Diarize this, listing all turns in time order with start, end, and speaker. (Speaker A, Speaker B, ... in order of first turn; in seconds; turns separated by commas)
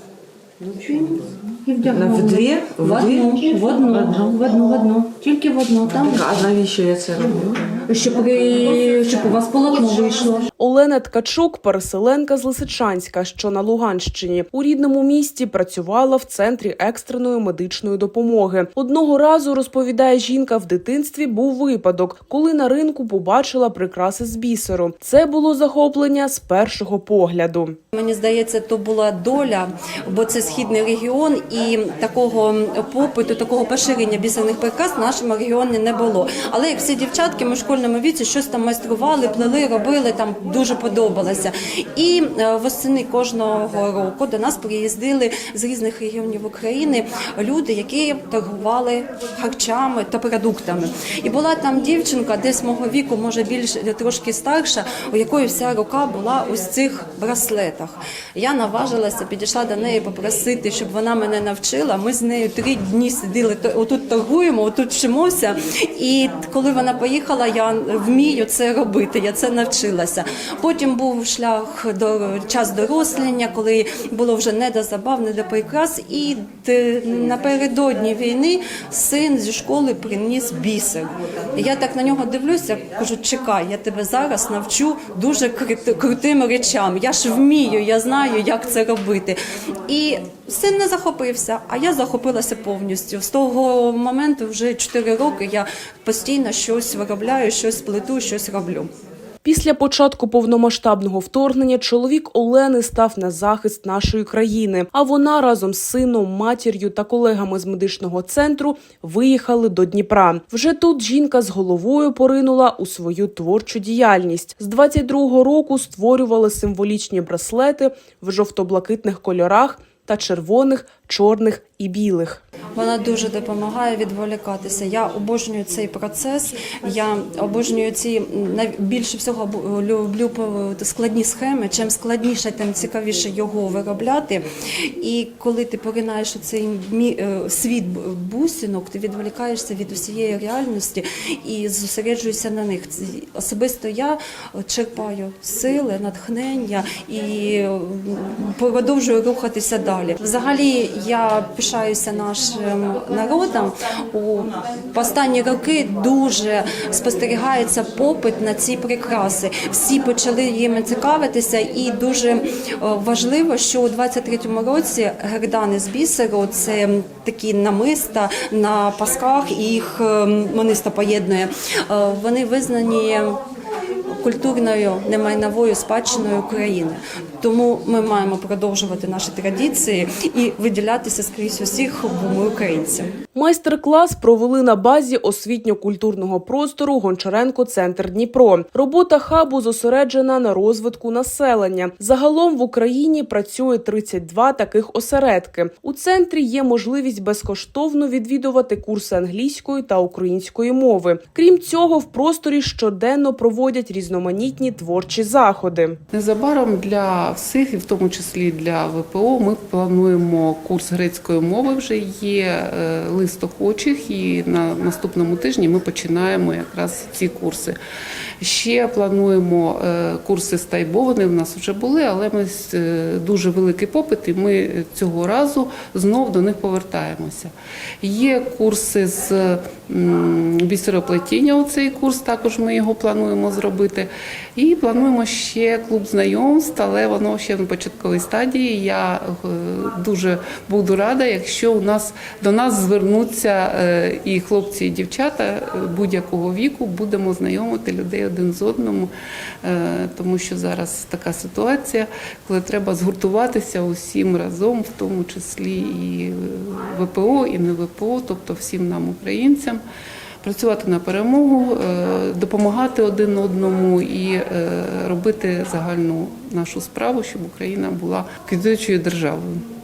Speaker A: 1.7-3.8, Speaker B: 1.8-2.3, Speaker C: 1.9-4.3, Speaker B: 2.9-4.3, Speaker A: 4.3-6.4, Speaker C: 5.9-7.7, Speaker A: 7.9-10.4, Speaker D: 10.6-27.8, Speaker B: 27.9-98.9, Speaker D: 99.4-122.4, Speaker B: 122.8-134.4, Speaker B: 135.0-173.4, Speaker B: 174.2-183.1, Speaker D: 183.3-206.0, Speaker E: 206.1-217.8, Speaker E: 218.4-249.1, Speaker E: 249.6-259.8, Speaker E: 260.4-269.6